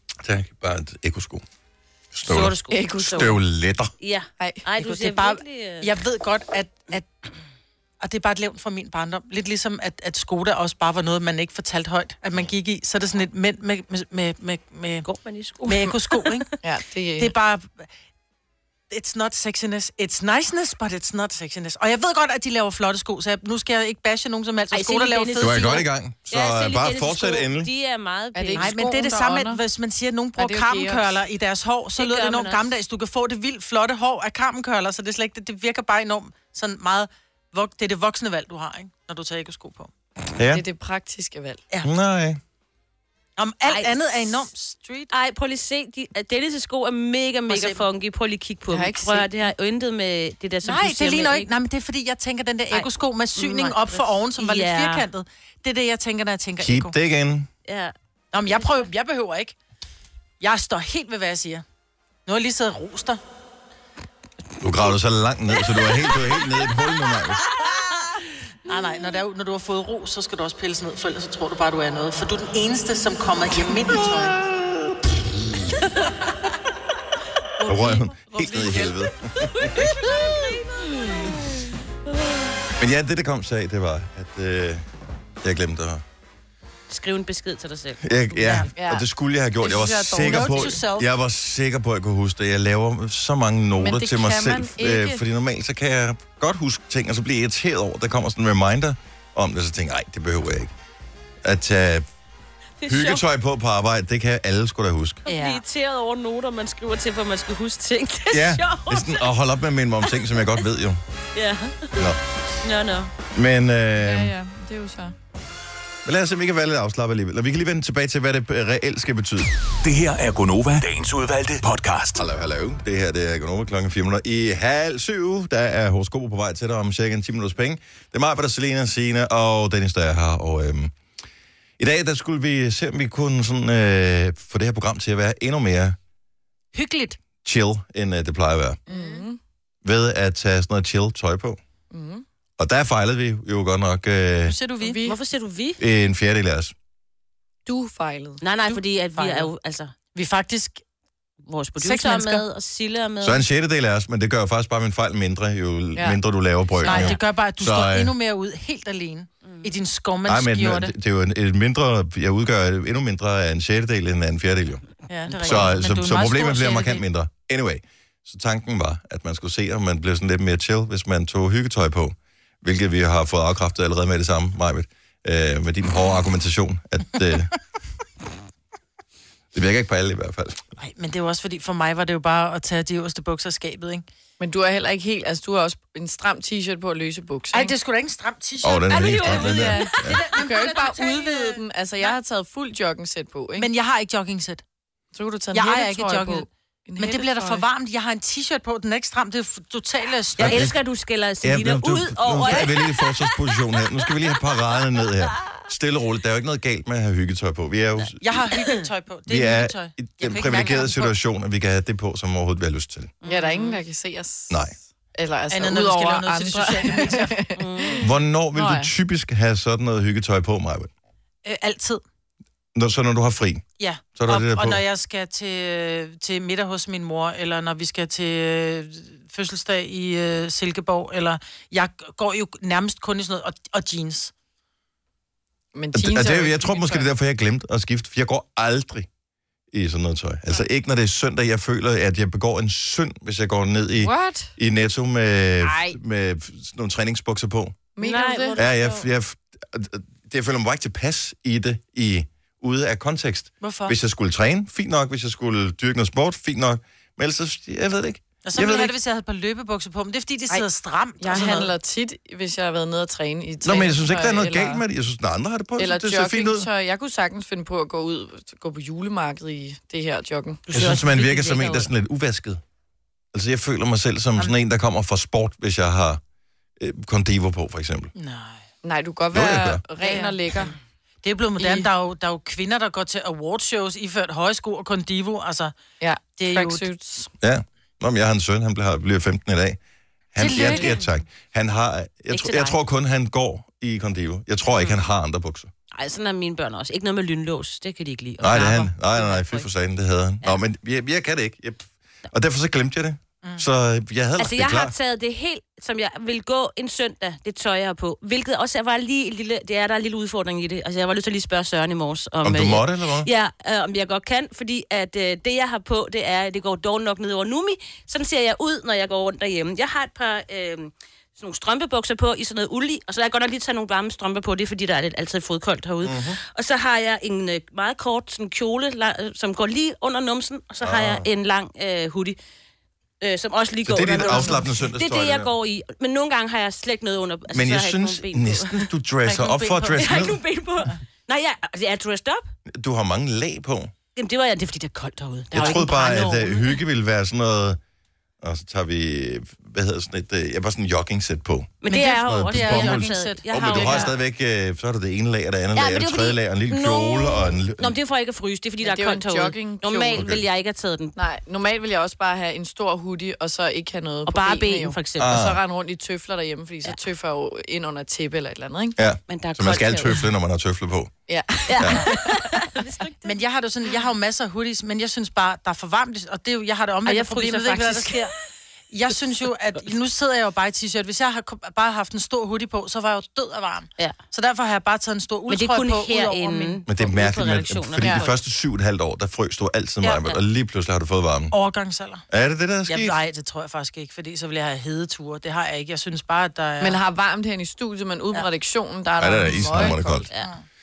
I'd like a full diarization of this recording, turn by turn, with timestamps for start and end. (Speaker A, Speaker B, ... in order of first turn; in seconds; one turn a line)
Speaker A: 0.2-1.4
Speaker A: 2.1-3.9
Speaker B: 2.3-3.4
Speaker C: 2.7-3.3
Speaker B: 4.0-6.0
Speaker D: 4.8-7.1
Speaker D: 8.0-15.1
Speaker B: 15.1-16.4
Speaker D: 15.7-16.5
Speaker C: 16.6-17.3
Speaker D: 17.2-17.9
Speaker D: 18.9-25.7
Speaker B: 24.7-28.7
Speaker A: 25.4-27.7
Speaker C: 28.4-29.6
Speaker D: 28.6-39.9
Speaker C: 30.4-31.1
Speaker B: 32.0-32.7
Speaker A: 40.4-40.6
Speaker C: 40.5-41.6
Speaker A: 41.8-42.4
Speaker D: 43.4-45.1
Speaker B: 43.7-44.4
Speaker B: 45.1-51.5
Speaker D: 47.5-47.8
Speaker C: 48.7-49.3
Speaker D: 50.6-56.9
Speaker B: 52.7-55.1
Speaker A: 56.6-57.5
Speaker B: 57.6-57.9
Speaker D: 58.3-59.6
Speaker B: 58.5-58.7
Speaker D: 60.4-61.6
Speaker D: 62.3-63.2
Speaker A: 64.6-67.5
Speaker D: 68.7-74.4
Speaker A: 73.9-75.1
Speaker C: 77.6-79.0
Speaker A: 77.6-79.9
Speaker B: 80.3-81.2
Speaker A: 82.8-84.9
Speaker A: 85.4-86.0
Speaker B: 86.9-88.6
Speaker A: 88.0-100.7
Speaker C: 88.8-89.0
Speaker C: 89.6-90.8
Speaker D: 90.1-91.1
Speaker C: 93.8-95.2
Speaker A: 101.4-102.1
Speaker B: 102.8-103.2
Speaker A: 102.9-105.2
Speaker B: 105.3-109.3
Speaker D: 105.3-105.5
Speaker A: 108.3-111.0
Speaker B: 110.0-110.7
Speaker B: 111.3-112.1
Speaker B: 112.6-113.1
Speaker A: 113.3-114.3
Speaker C: 114.0-115.2
Speaker A: 116.0-119.5
Speaker E: 119.8-122.2
Speaker A: 122.2-130.9
Speaker A: 131.8-136.0
Speaker D: 136.7-137.2
Speaker A: 137.4-138.8
Speaker C: 138.9-139.4
Speaker A: 139.8-141.6
Speaker C: 141.9-142.2
Speaker A: 142.6-144.6
Speaker D: 144.5-145.0
Speaker C: 144.8-145.2
Speaker B: 145.0-145.8
Speaker A: 145.8-146.7
Speaker C: 147.7-148.4
Speaker B: 148.4-149.9
Speaker D: 148.7-149.5
Speaker D: 150.1-150.8
Speaker B: 151.5-153.4
Speaker D: 151.8-152.4
Speaker A: 153.2-158.1
Speaker B: 156.8-157.2
Speaker D: 156.8-160.9
Speaker B: 159.4-159.7
Speaker A: 160.3-164.8
Speaker D: 165.1-167.0
Speaker B: 165.3-165.7
Speaker A: 165.4-177.5
Speaker A: 179.5-180.6
Speaker D: 180.8-184.1
Speaker C: 184.4-187.7
Speaker D: 187.5-192.2
Speaker A: 188.6-190.2
Speaker B: 188.9-190.2
Speaker C: 189.1-193.7
Speaker D: 193.6-194.6
Speaker C: 195.1-197.6
Speaker D: 195.5-200.7
Speaker A: 200.4-200.8
Speaker B: 200.4-203.3
Speaker A: 201.4-208.2
Speaker D: 208.2-211.1
Speaker A: 209.3-213.1
Speaker B: 213.2-213.8
Speaker C: 213.2-214.6
Speaker C: 215.2-218.9
Speaker D: 215.5-217.4
Speaker B: 217.6-218.1
Speaker A: 218.0-220.9
Speaker D: 221.4-222.0
Speaker A: 222.8-224.8
Speaker D: 223.8-234.3
Speaker C: 235.7-237.1
Speaker A: 235.9-239.1
Speaker A: 239.7-247.8
Speaker C: 244.0-244.6
Speaker C: 245.6-246.0
Speaker C: 248.0-248.6
Speaker B: 248.0-249.1
Speaker A: 248.6-258.9
Speaker D: 253.6-253.9
Speaker D: 258.4-261.7
Speaker C: 261.2-264.8
Speaker A: 263.6-266.7
Speaker C: 265.8-270.6
Speaker B: 270.7-271.9
Speaker A: 270.7-272.6
Speaker A: 273.3-276.2
Speaker A: 276.8-278.1
Speaker D: 278.2-278.6
Speaker C: 278.8-280.8
Speaker A: 279.3-279.8
Speaker D: 280.0-280.7
Speaker D: 281.2-285.7
Speaker C: 281.6-281.9
Speaker C: 286.0-287.3
Speaker D: 286.4-286.9
Speaker A: 287.4-289.8
Speaker A: 290.3-295.7
Speaker D: 290.4-290.9
Speaker B: 290.4-291.1
Speaker C: 290.6-290.9
Speaker B: 292.3-292.8
Speaker B: 295.9-299.7
Speaker A: 298.4-304.9
Speaker B: 304.4-332.4
Speaker A: 312.4-313.3
Speaker A: 326.0-326.4
Speaker A: 330.8-331.3
Speaker B: 333.2-338.9
Speaker A: 333.9-335.5
Speaker D: 334.2-334.5
Speaker A: 337.5-340.4
Speaker D: 339.3-340.3
Speaker B: 339.9-342.5
Speaker A: 342.7-343.9
Speaker B: 344.2-346.8
Speaker A: 345.5-347.8
Speaker A: 348.4-357.9
Speaker B: 351.8-354.1
Speaker D: 351.9-354.1
Speaker B: 355.8-361.1
Speaker C: 358.8-360.3
Speaker A: 360.1-360.4
Speaker C: 361.2-369.0
Speaker B: 364.3-365.4
Speaker A: 365.2-365.6
Speaker A: 369.0-371.1
Speaker B: 369.3-370.3
Speaker C: 371.3-372.8
Speaker B: 371.7-373.3
Speaker A: 371.8-372.1
Speaker D: 373.2-378.3
Speaker B: 377.1-378.3
Speaker D: 378.9-386.8
Speaker B: 385.5-388.4
Speaker A: 386.9-391.5
Speaker B: 390.1-390.4
Speaker D: 391.5-392.2
Speaker A: 392.3-393.2
Speaker D: 392.9-397.0
Speaker C: 396.8-400.3
Speaker A: 399.2-400.3